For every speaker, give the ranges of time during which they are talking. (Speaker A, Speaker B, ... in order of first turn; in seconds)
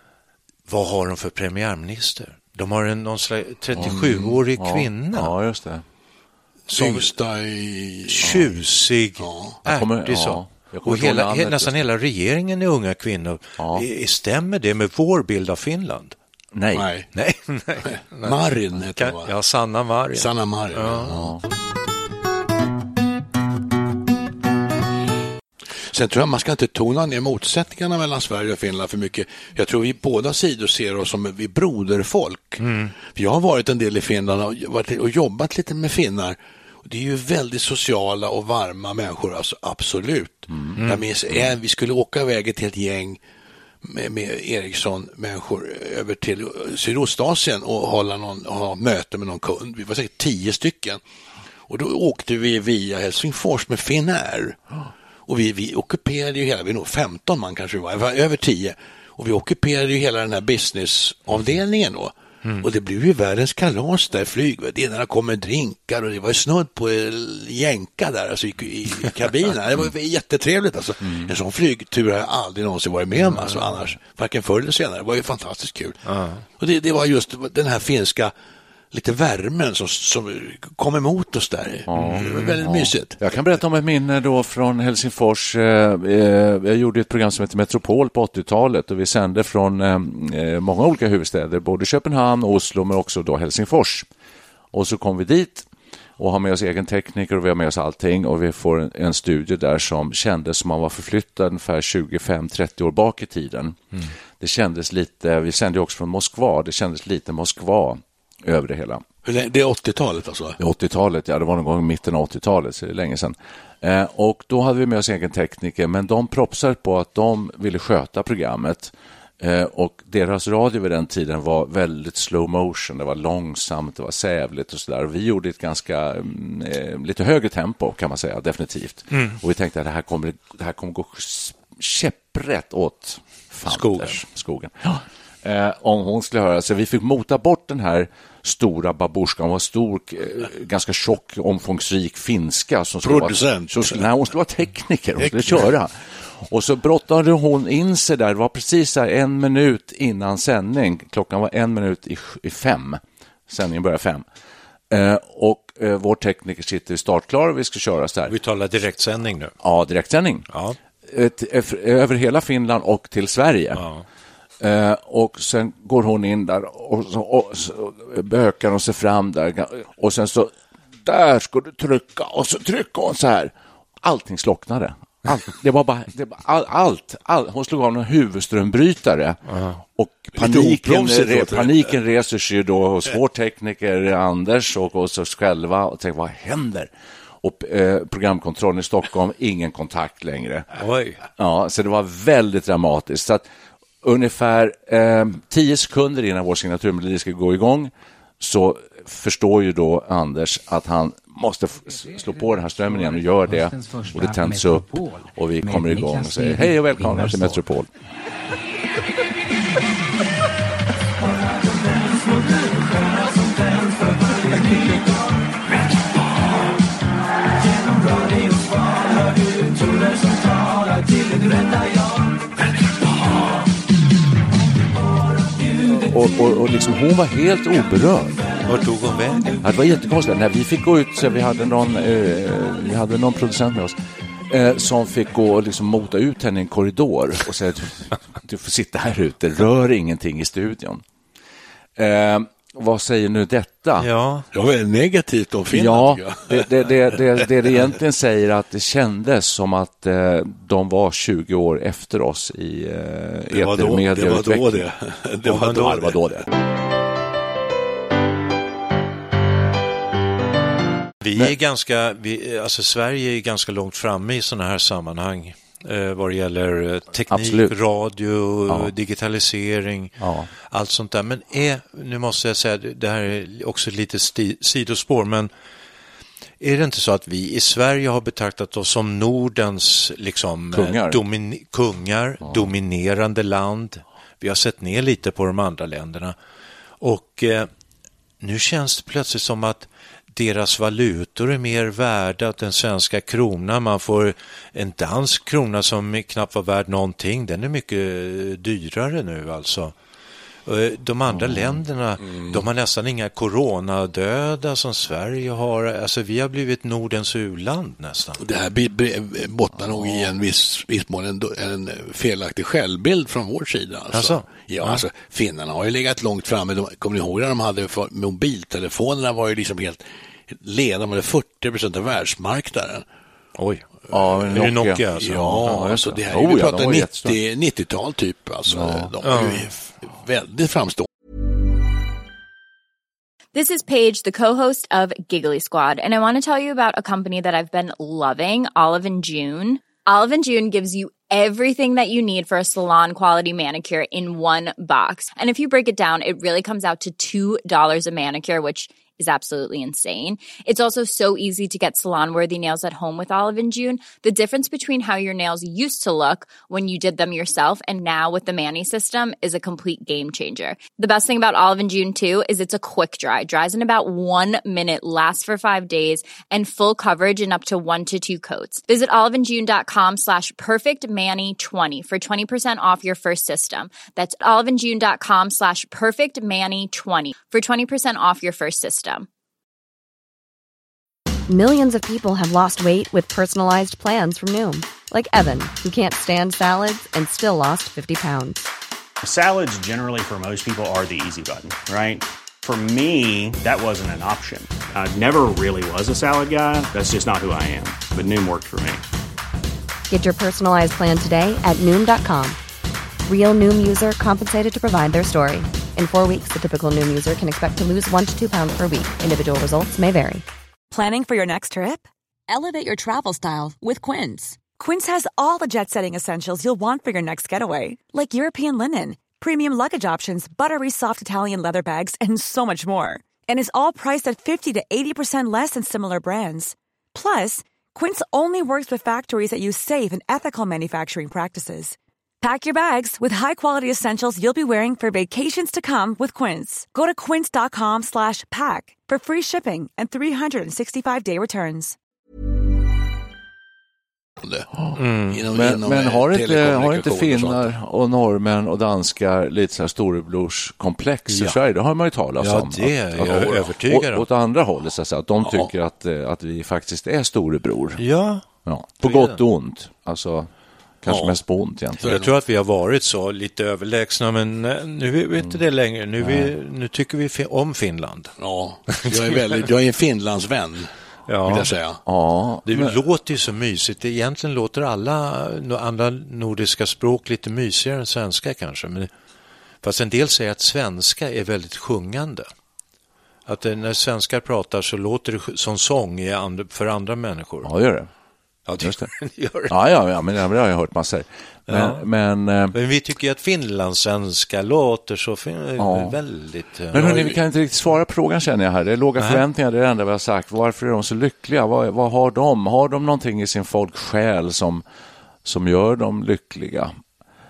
Speaker A: 0.7-5.3, 6.7-7.1, 8.1-16.1, 17.1-18.3, 18.9-21.1, 32.6-32.9, 40.8-41.0, 76.0-76.5, 81.9-82.5, 129.1-129.4, 133.7-134.2, 158.3-159.5, 160.5-160.8, 163.8-164.0, 179.5-179.8, 190.8-191.2, 228.7-229.6, 244.0-244.4, 255.4-256.0, 261.2-270.1, 270.7-275.5, 276.6-286.4, 287.0-287.7, 288.4-299.9, 300.6-308.4, 314.1-315.0, 323.6-323.9, 324.5-325.8, 329.2-329.7, 444.9-445.4, 451.3-451.6, 452.4-454.2, 458.0-458.4, 459.0-459.4, 462.0-468.3, 468.9-469.6, 471.3-471.7, 472.6-479.1, 479.8-482.5, 483.5-487.7, 488.7-489.8, 491.7-492.0, 492.7-497.3, 499.2-499.4
Speaker B: 3.8-4.3, 6.7-8.4, 9.2-9.6, 16.7-17.1, 18.2-19.3, 20.1-21.3, 25.9-43.2, 43.8-51.0, 51.7-54.6, 55.3-76.0, 76.6-78.3, 78.9-83.2, 109.2-110.6, 143.0-144.0, 145.2-145.6, 180.3-181.9, 244.5-246.7, 253.5-256.2, 308.4-323.0, 325.2-331.1, 444.4-444.7, 445.2-447.6, 453.2-453.7, 461.1-461.4, 462.0-462.3, 468.4-470.9, 471.4-472.0
Speaker C: 4.6-5.8, 9.6-11.7, 13.6-13.8, 16.5-16.8, 21.1-21.4, 40.5-40.8, 81.9-94.1, 94.7-95.7, 96.2-109.0, 110.6-154.2, 154.9-158.3, 159.6-160.5, 161.0-163.8, 164.6-179.4, 180.0-186.9, 187.4-190.7, 191.4-193.4, 194.0-207.9, 225.9-228.4, 229.6-233.9, 234.5-241.0, 242.0-244.1, 245.7-254.8, 255.7-256.5, 267.3-267.7, 268.7-268.9, 270.2-270.5, 280.7-281.2, 301.3-301.8, 324.1-327.3, 328.7-329.1, 445.5-458.0, 458.6-460.5, 461.0-462.1, 466.2-466.5, 472.1-472.9, 487.6-488.1, 488.8-489.1, 489.7-492.7, 495.8-496.2, 496.9-504.8, 505.4-506.9
Speaker D: 333.5-379.3
Speaker E: 381.5-388.6, 400.1-402.6, 403.2-410.4
Speaker F: 389.2-399.0
Speaker G: 410.9-441.9